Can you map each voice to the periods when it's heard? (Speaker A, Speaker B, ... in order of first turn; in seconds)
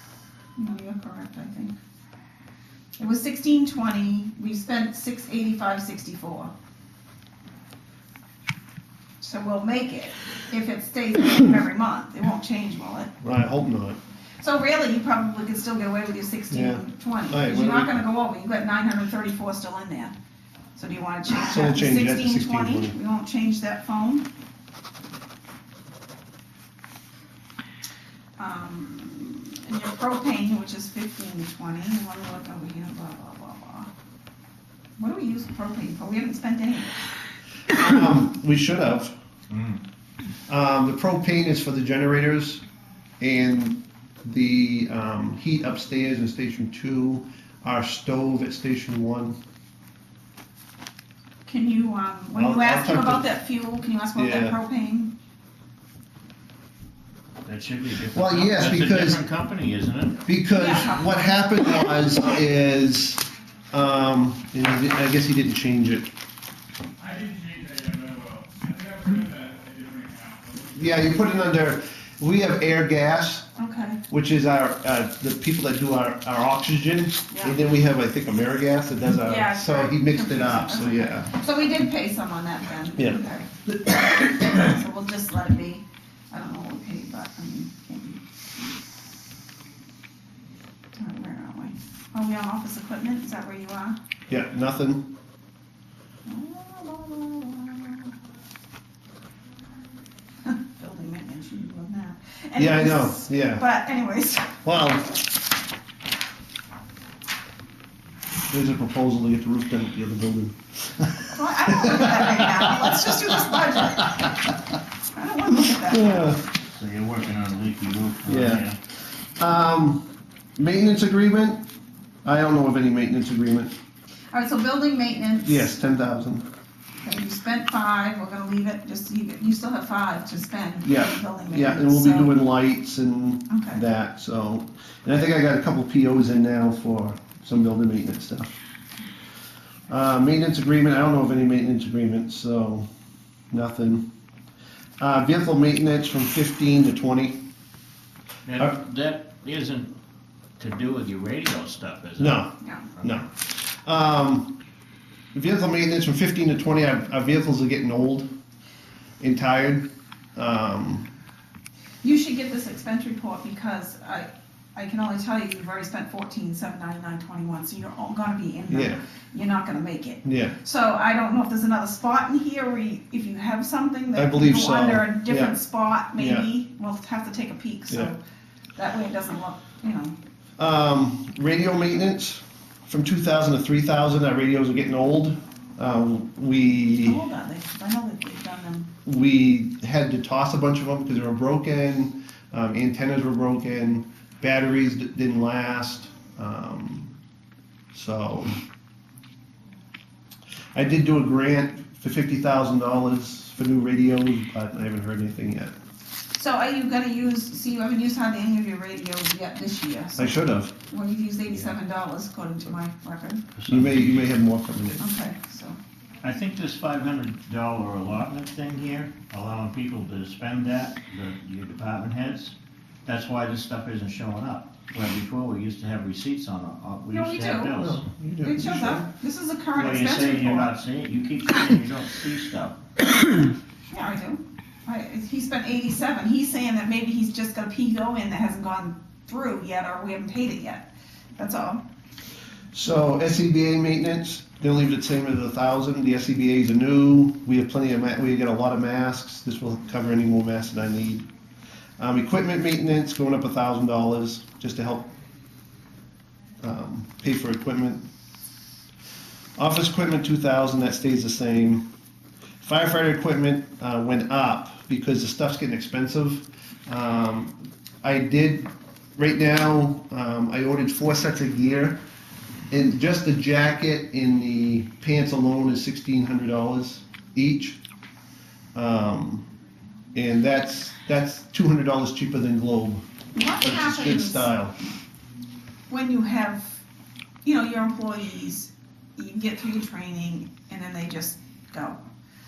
Speaker A: 0.6-1.8, 3.0-6.5, 9.2-13.1, 14.4-20.1, 20.8-24.2, 28.4-33.9, 35.0-37.0, 51.5-55.1, 60.5-61.1, 73.6-74.0, 77.3-77.6, 79.2-83.5, 84.1-88.2, 91.0-94.0, 96.2-98.1, 100.4-104.6, 111.3-114.3, 115.1-116.4, 124.3-125.7, 127.0-132.3, 133.5-133.8, 152.6-152.9, 162.0-178.2, 178.8-180.2, 187.0-188.9, 206.3-213.4, 215.0-215.8, 227.1-227.8, 228.4-230.7, 233.9-241.8, 283.3-284.5, 285.9-286.8, 287.4-292.0
Speaker B: 13.2-14.0, 16.5-18.0, 21.3-22.9, 37.7-39.1, 40.5-42.6, 43.2-49.3, 52.3-53.3, 54.1-54.6, 58.1-59.2, 60.2-66.1, 70.7-73.5, 74.1-81.3, 83.0-83.2, 94.3-95.0, 102.5-103.6, 104.6-105.2, 108.5-110.5, 111.7-113.5, 115.9-116.4, 118.2-118.7, 119.4-120.0, 120.6-121.6, 122.2-123.7, 125.4-126.4, 130.8-138.6, 139.9-142.8, 143.5-144.0, 145.0-147.4, 152.2-154.5, 155.3-158.3, 159.2-159.8, 160.3-161.1, 168.7-169.0, 170.2-170.6, 174.1-175.6, 176.2-176.5, 180.6-187.2, 189.0-197.1, 197.9-198.6, 200.7-205.7, 210.2-210.7, 213.7-215.0, 227.7-229.1, 242.7-251.2, 252.0-255.1, 256.6-258.0, 259.6-261.8, 262.6-272.0, 272.7-277.8, 278.7-279.4, 280.1-283.0, 283.6-284.7
Speaker C: 39.5-39.8, 57.4-60.2, 116.8-118.8, 148.4-149.9, 150.6-153.2, 213.6-214.3, 216.2-222.5, 223.1-228.0, 229.7-232.8
Speaker D: 67.0-70.9